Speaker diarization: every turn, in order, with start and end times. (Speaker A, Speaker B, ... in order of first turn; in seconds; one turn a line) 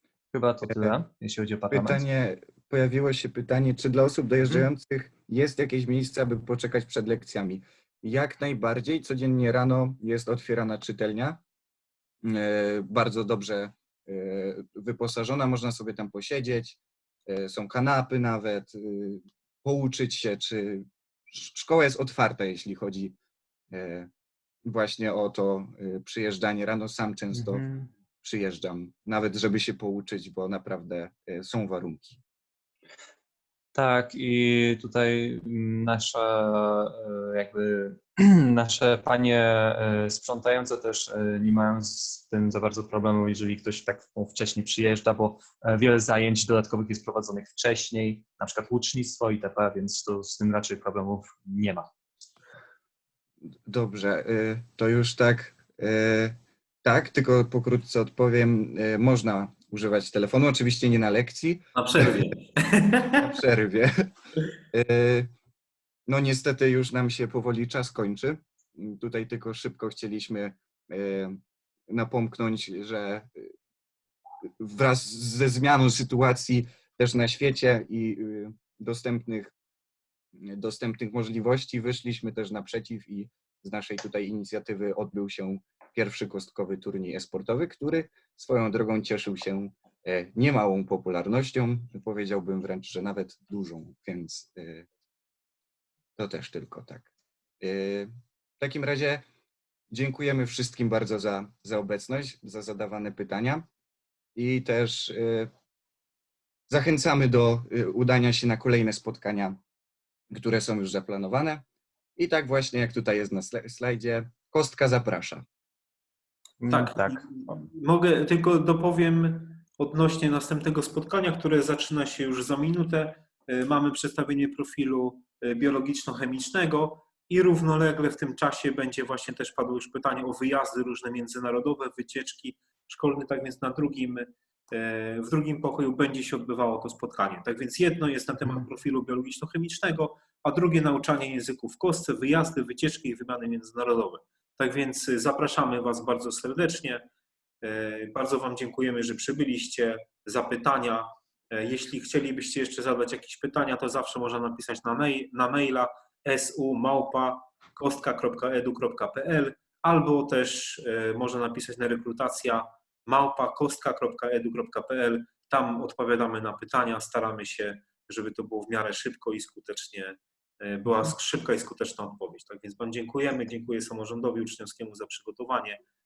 Speaker A: 0.3-2.0
Speaker B: 0.6-1.0
Speaker B: 1.7-11.4
Speaker B: 12.2-23.1
Speaker B: 23.7-24.1
Speaker B: 24.6-27.6
Speaker A: 27.3-27.9
Speaker B: 28.2-32.2
Speaker A: 33.7-51.9
Speaker B: 53.6-62.2
Speaker C: 61.8-63.3
Speaker B: 63.2-64.1
Speaker B: 64.7-65.3
Speaker B: 66.1-73.5
Speaker B: 74.6-79.5
Speaker B: 80.3-94.9
Speaker B: 96.2-97.1
Speaker B: 97.6-99.2
Speaker B: 99.9-103.7
Speaker B: 104.3-105.5
Speaker B: 106.7-109.6
Speaker B: 110.3-111.6
Speaker B: 112.2-115.4
Speaker A: 116.6-117.6
Speaker C: 116.7-147.0
Speaker C: 147.6-175.8